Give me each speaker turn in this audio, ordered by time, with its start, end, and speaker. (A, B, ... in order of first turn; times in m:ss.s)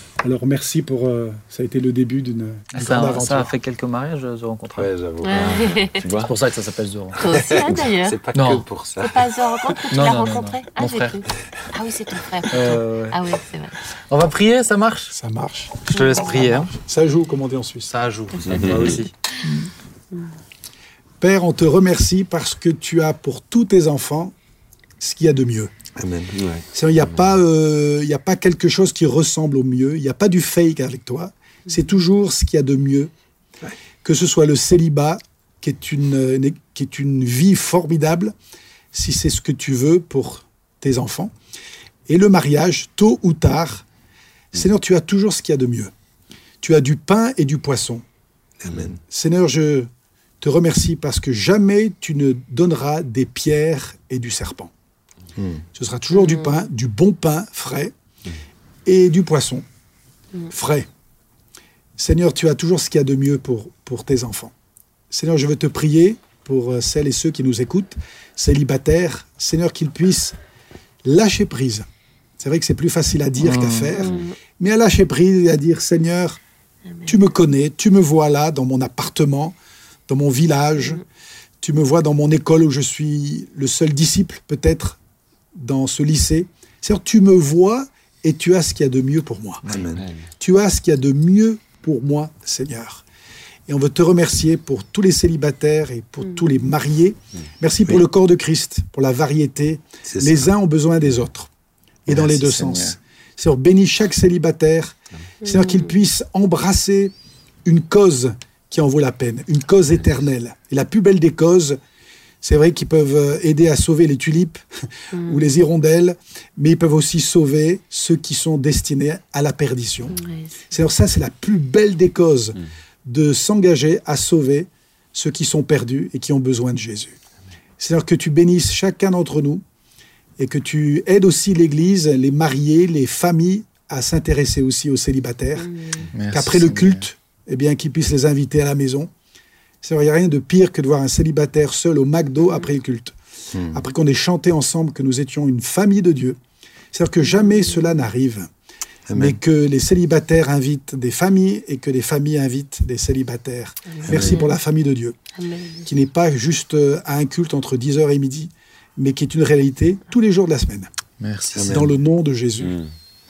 0:00.2-0:03.5 A
0:02.7-0:04.9 B
0:04.8-0:05.8 C
0:05.2-0:06.0 D
0:05.4-0:06.3 E
0:06.1-0:07.2 B
0:07.2-0:08.2 D
0:07.3-0:09.2 C
0:08.3-0:08.6 B
0:09.0-0:13.8 D
0:09.9-0:11.2 B
0:12.5-0:13.2 B
0:14.1-0:15.1 B
0:15.1-0:17.9 A
0:15.9-0:16.7 B
0:17.9-0:19.1 B
0:18.5-0:19.0 E
0:19.4-0:19.7 A
0:21.2-0:24.3 A
0:25.0-0:25.7 A
0:26.0-0:26.3 C
0:26.3-0:27.2 E
0:26.7-0:33.1 A
0:34.0-0:38.3 A
0:38.9-0:41.3 A
0:42.1-0:43.8 A
0:44.5-0:45.9 A
0:46.6-0:48.0 A
0:48.6-0:49.0 C
0:49.0-0:49.9 A
0:50.4-0:54.7 A
0:55.4-0:55.6 C
0:55.7-0:57.9 A
0:56.1-0:56.6 D
0:58.8-0:59.6 A
1:00.5-1:00.9 A
1:02.0-1:04.5 A
1:05.1-1:10.4 A
1:11.0-1:11.9 A
1:12.4-1:16.4 A
1:13.4-1:14.0 B
1:14.0-1:14.3 D
1:17.0-1:19.6 A
1:20.1-1:21.0 A
1:21.6-1:25.0 A
1:25.5-1:29.6 A
1:29.6-1:30.0 C
1:29.9-1:30.3 E
1:30.4-1:33.0 A
1:33.7-1:41.5 A
1:40.0-1:40.5 C
1:42.0-1:47.1 A
1:42.1-1:43.0 B
1:45.4-1:45.9 D
1:47.6-1:51.8 A
1:52.4-2:00.2 A
1:55.1-1:55.5 D
2:00.1-2:00.7 D
2:00.7-2:07.2 A
2:07.8-2:09.6 A
2:10.4-2:15.7 A
2:15.6-2:16.1 D
2:16.1-2:17.0 B
2:16.3-2:19.1 A
2:19.8-2:23.1 A
2:23.5-2:23.8 C
2:23.7-2:26.4 A
2:26.9-2:28.5 A
2:29.1-2:29.4 C
2:29.1-2:35.2 A
2:33.9-2:34.5 D
2:34.1-2:34.4 C
2:35.4-2:35.9 D
2:35.8-2:40.9 A
2:41.2-2:41.8 B
2:41.5-2:41.9 C
2:41.6-2:42.8 A
2:42.6-2:42.9 E